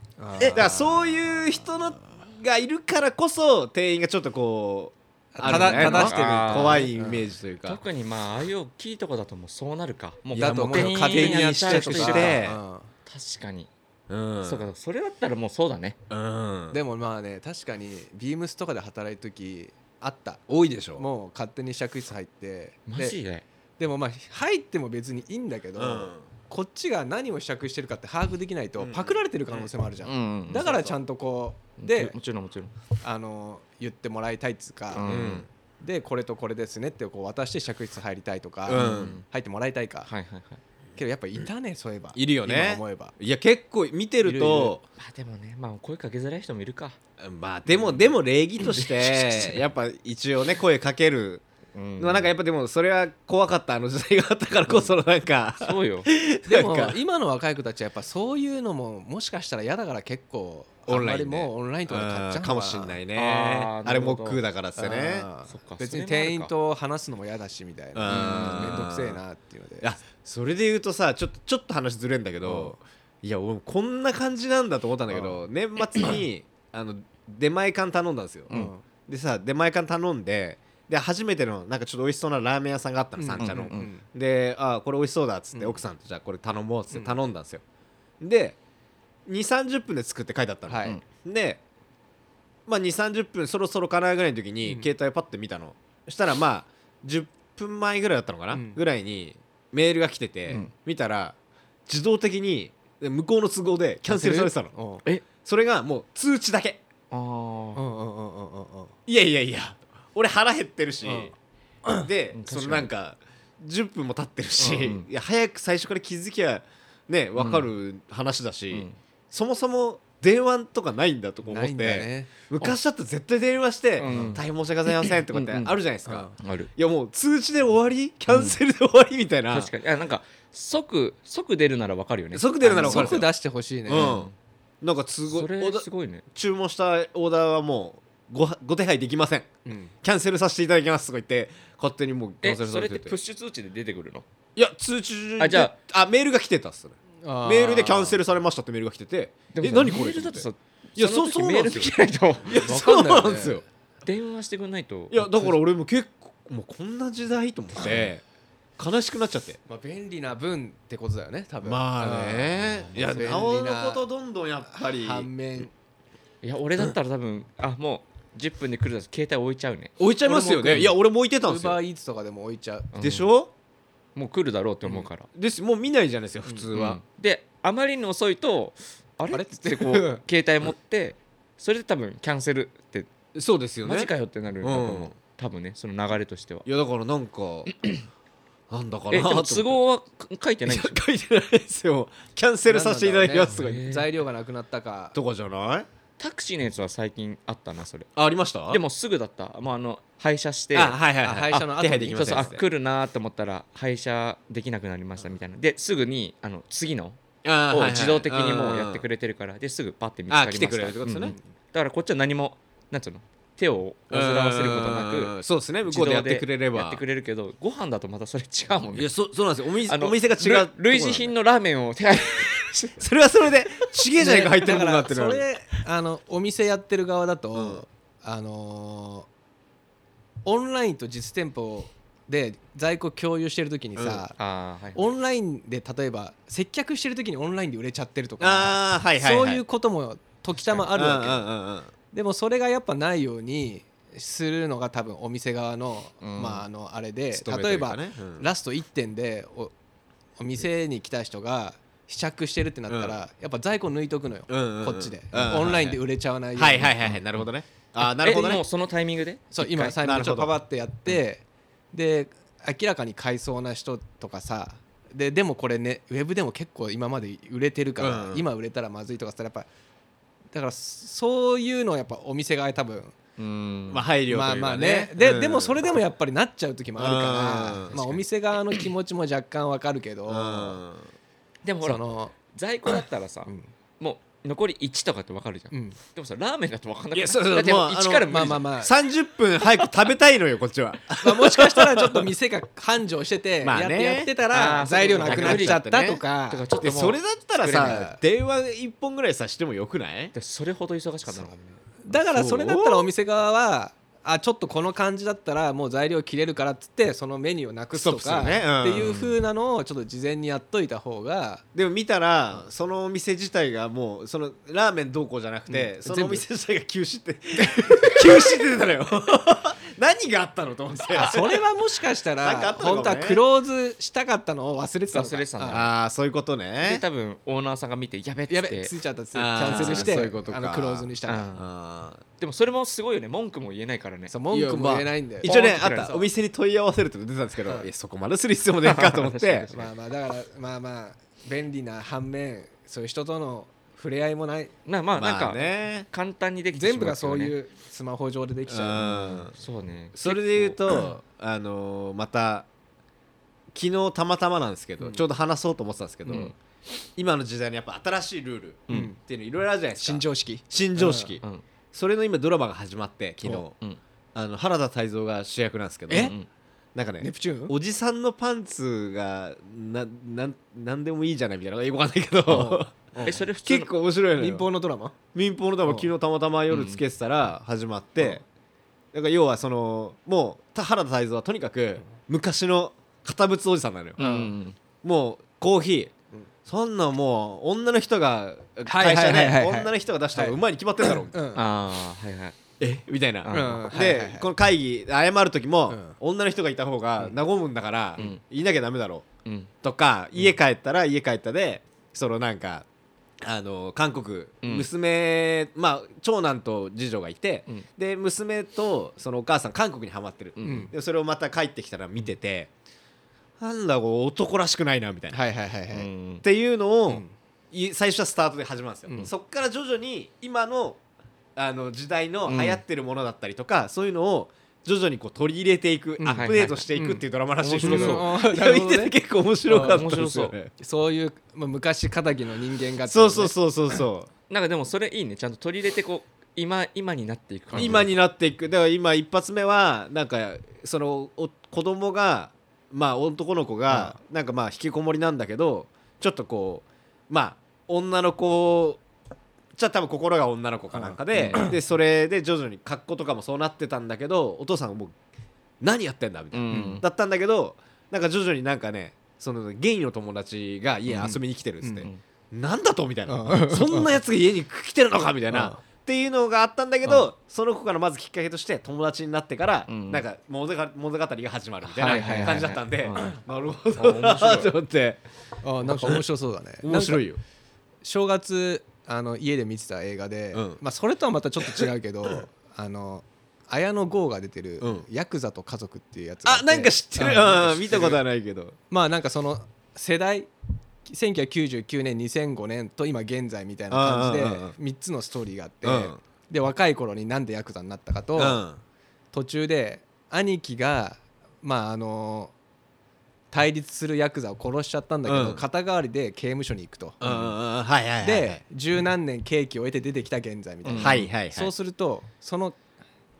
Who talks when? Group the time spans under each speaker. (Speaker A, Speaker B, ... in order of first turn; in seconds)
Speaker A: 0.2-1.4, 5.3-7.3, 10.3-12.9, 16.7-20.4, 21.0-23.2, 23.8-32.1, 33.0-35.2, 35.8-40.1, 41.0-43.1, 44.2-44.8, 56.5-63.0, 64.8-69.9, 72.4-72.8, 75.1-75.5, 78.5-78.9, 83.2-84.0, 85.5-85.8, 86.9-87.2, 90.7-91.0, 98.5-98.8, 104.1-105.0, 107.8-108.9, 111.0-111.3, 121.5-122.7, 124.1-124.3, 132.6-134.2, 147.2-148.2, 152.5-153.6, 159.7-164.0, 164.7-165.7, 170.2-172.9, 179.3-180.2, 192.7-195.2, 201.2-202.5, 224.2-229.3, 230.4-234.3, 234.9-241.5, 242.1-249.7, 250.4-257.1, 259.5-269.7, 270.5-273.1, 274.3-280.8, 281.8-282.3, 285.7-286.0, 288.3-288.9, 291.2-296.6, 297.7-298.2, 302.0-311.6, 315.7-316.4, 317.6-318.4, 321.1-325.9, 328.5-331.5, 334.3-336.3, 339.7-344.7, 346.7-349.1, 358.9-359.2, 360.0-361.4, 366.1-366.3, 367.2-367.8, 372.5-373.4, 374.4-375.2, 375.9-376.1, 384.2-384.5, 388.9-391.6, 393.5-394.5, 395.9-396.2, 410.6-410.9, 415.3-416.1, 426.2-427.2, 427.8-429.1, 429.7-430.1, 430.8-433.5, 437.7-438.1, 443.9-444.1, 450.9-451.8, 456.7-457.0, 461.1-462.1, 463.3-464.1, 465.5-465.8, 471.9-472.8, 475.6-477.2, 478.0-488.2, 488.9-490.5, 491.1-498.6, 499.3-502.5, 503.5-507.3, 508.2-512.8
Speaker B: 0.5-7.8, 10.4-12.6, 14.1-14.7, 16.1-16.8, 20.5-21.1, 25.8-26.3, 28.8-29.2, 35.0-35.5, 38.7-39.2, 42.1-44.8, 47.2-51.5, 52.0-57.0, 60.9-65.3, 68.0-69.2, 69.8-78.5, 79.1-87.6, 88.2-88.6, 89.3-91.6, 92.7-101.3, 101.9-104.8, 105.4-106.8, 109.1-111.3, 112.0-129.7, 132.3-133.3, 133.9-134.3, 134.8-143.2, 144.6-151.9, 152.5-153.6, 155.1-158.2, 158.8-159.6, 161.6-165.3, 170.0-171.8, 173.0-173.5, 175.3-177.0, 183.3-184.1, 184.6-185.1, 186.7-187.9, 188.7-189.8, 190.7-193.8, 195.1-195.9, 198.2-198.8, 200.7-202.6, 207.4-209.0, 210.3-211.3, 214.1-217.0, 218.9-221.3, 223.0-225.4, 227.5-227.8, 234.0-234.2, 238.4-239.6, 240.9-241.9, 247.3-248.5, 252.9-253.2, 254.5-256.0, 256.6-258.6, 260.0-260.5, 268.0-268.5, 273.9-275.9, 277.0-278.0, 280.3-281.1, 287.1-292.3, 293.6-296.2, 296.8-300.3, 302.1-303.1, 307.9-309.1, 311.8-321.6, 322.4-323.4, 325.7-327.0, 329.3-332.2, 334.5-339.7, 345.2-346.1, 348.7-349.5, 350.2-352.7, 353.7-356.5, 357.2-361.4, 361.9-363.8, 364.4-366.3, 366.9-374.7, 375.3-378.4, 379.1-384.2, 385.0-386.1, 386.7-391.4, 392.8-399.3, 399.8-402.9, 403.4-412.7, 413.6-415.4, 416.4-421.0, 421.6-430.7, 433.1-434.3, 437.7-449.0, 449.8-455.1, 455.8-475.2, 475.9-476.2, 476.8-477.4, 480.5-480.8, 484.8-485.1, 486.4-488.8, 493.9-494.8, 495.8-496.2, 498.4-498.8, 505.2-505.6, 507.2-508.6, 511.0-511.7
Speaker C: 5.4-6.9, 7.7-12.4, 13.1-13.7, 14.4-16.0, 22.9-23.4, 30.0-30.9, 31.8-32.7, 34.9-35.5, 38.7-39.2, 40.1-40.6, 45.0-47.0, 47.7-48.1, 49.1-49.5, 51.8-52.3, 55.6-56.1, 63.1-64.4, 65.5-66.5, 68.1-68.8, 83.4-83.9, 107.1-107.8, 112.3-112.9, 114.6-115.1, 117.4-117.7, 118.7-119.0, 124.0-124.4, 125.3-125.8, 126.3-126.7, 128.3-128.6, 129.5-133.3, 133.9-134.3, 135.3-136.2, 142.4-144.3, 145.4-145.8, 149.5-152.7, 154.1-155.3, 166.4-169.9, 172.9-173.3, 174.2-175.3, 176.7-183.1, 183.8-186.7, 189.1-191.0, 193.5-194.1, 196.2-198.1, 198.7-201.0, 201.5-215.3, 215.9-219.1, 219.9-223.0, 234.4-235.1, 246.2-246.6, 258.0-260.0, 273.4-274.1, 277.9-278.2, 281.6-288.7, 294.5-295.8, 296.5-298.0, 300.3-301.8, 308.9-309.4, 325.1-325.9, 326.8-328.9, 329.6-330.2, 331.3-331.7, 332.4-334.4, 335.4-336.2, 338.9-339.9, 344.9-347.5, 349.0-350.8, 356.3-356.5, 366.1-366.5, 372.5-373.9, 376.7-377.0, 384.2-384.8, 391.5-392.6, 393.4-393.8, 399.4-399.7, 404.6-404.9, 410.6-410.9, 415.9-416.4, 422.5-422.8, 426.3-426.9, 427.6-428.3, 429.7-430.6, 434.5-438.1, 451.3-451.6, 456.5-457.0, 469.9-470.2, 472.0-473.4, 473.9-474.7, 510.8-511.3